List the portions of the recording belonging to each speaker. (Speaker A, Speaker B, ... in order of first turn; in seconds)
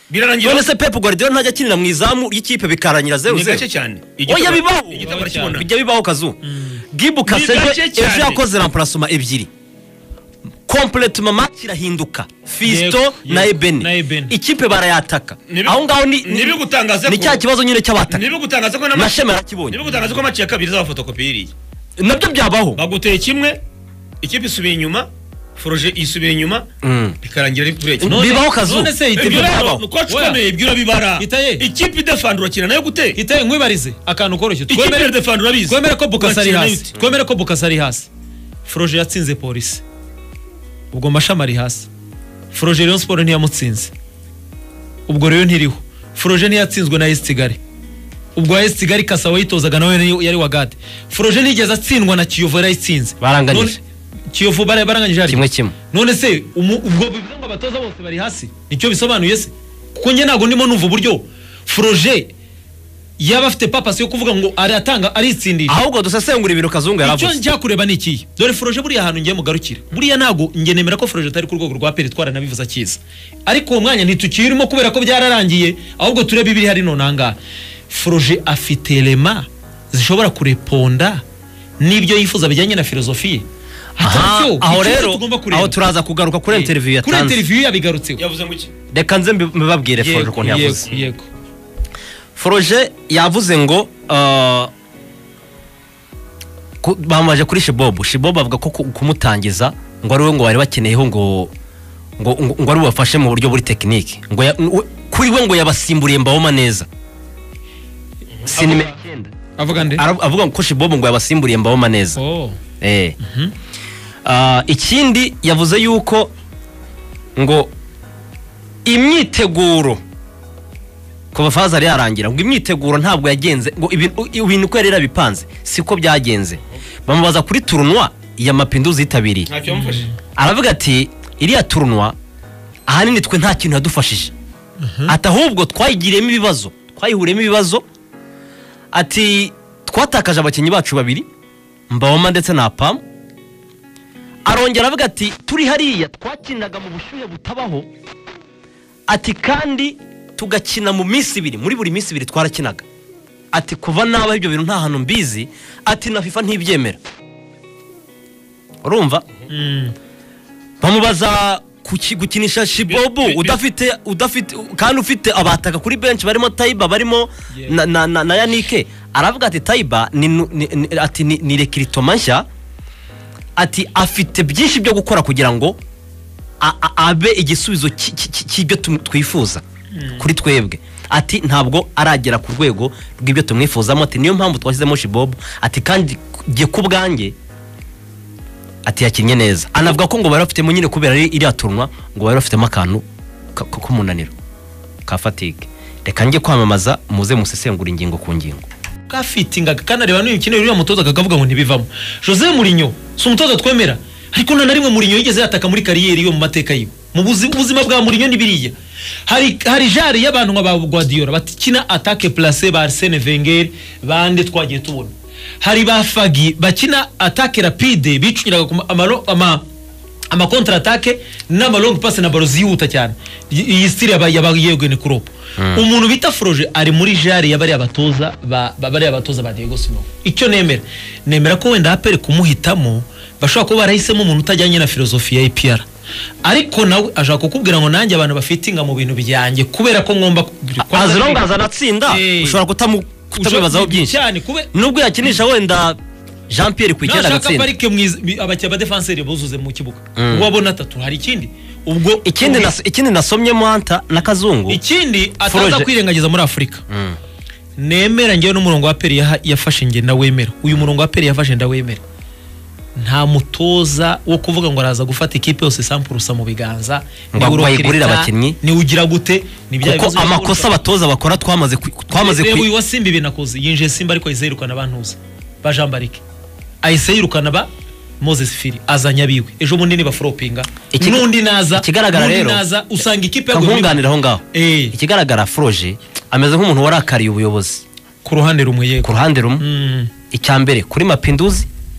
Speaker A: 0.1-0.7, 3.2-5.7, 7.2-8.4, 15.5-17.4, 18.1-19.2, 19.7-21.5, 22.8-23.6, 24.2-26.6, 27.2-28.1, 29.1-33.2, 34.7-37.1, 88.2-88.7, 129.5-130.1, 162.9-163.6
Speaker B: 0.4-3.6, 4.3-6.4, 6.9-9.5, 10.7-18.2, 18.9-19.8, 22.0-22.8, 26.8-27.2, 28.0-29.8, 53.2-53.8, 55.2-55.7, 65.7-67.4, 84.0-87.4, 88.9-90.9, 92.3-94.7, 96.8-101.5, 102.2-106.9, 108.4-112.2, 112.8-113.2, 114.2-116.3, 117.3-117.7, 118.8-120.0, 121.3-129.5, 130.3-132.2, 132.9-134.3, 135.1-137.8, 138.9-141.3, 141.9-143.0, 144.4-147.9, 149.1-152.8, 153.5-157.0, 158.8-159.2, 160.8-172.4, 173.6-175.8, 176.6-179.6, 180.1-187.3, 188.8-194.3, 195.1-198.6, 225.6-225.8, 240.8-244.2, 244.7-246.0, 246.5-247.7, 250.2-250.5, 252.2-254.8, 255.4-255.9, 256.9-257.2, 267.3-268.6, 269.8-272.7, 280.9-282.6, 283.5-287.8, 289.0-289.6, 290.3-291.7
Speaker C: 4.9-5.6, 6.4-6.8, 12.6-14.3, 28.0-30.4, 31.2-31.6, 33.1-35.1, 35.6-38.1, 38.6-39.8, 40.9-41.9, 42.5-43.9, 45.1-47.6, 48.3-53.8, 54.3-62.3, 63.2-65.8, 67.0-77.4, 77.9-81.2, 81.8-83.4, 84.0-85.8, 86.5-88.2, 90.0-91.3, 108.5-108.9, 109.6-110.0, 112.2-112.6, 113.2-113.5, 129.7-130.2, 134.8-135.2, 159.5-159.9, 167.5-167.8, 179.9-180.3, 199.1-208.7, 209.2-219.6, 220.3-235.8, 236.4-241.5, 242.1-242.6, 243.3-244.7, 247.0-252.7, 254.7-256.8, 257.8-262.0, 262.9-270.7, 272.1-276.2, 276.8-277.7, 278.2-284.9, 288.2-290.1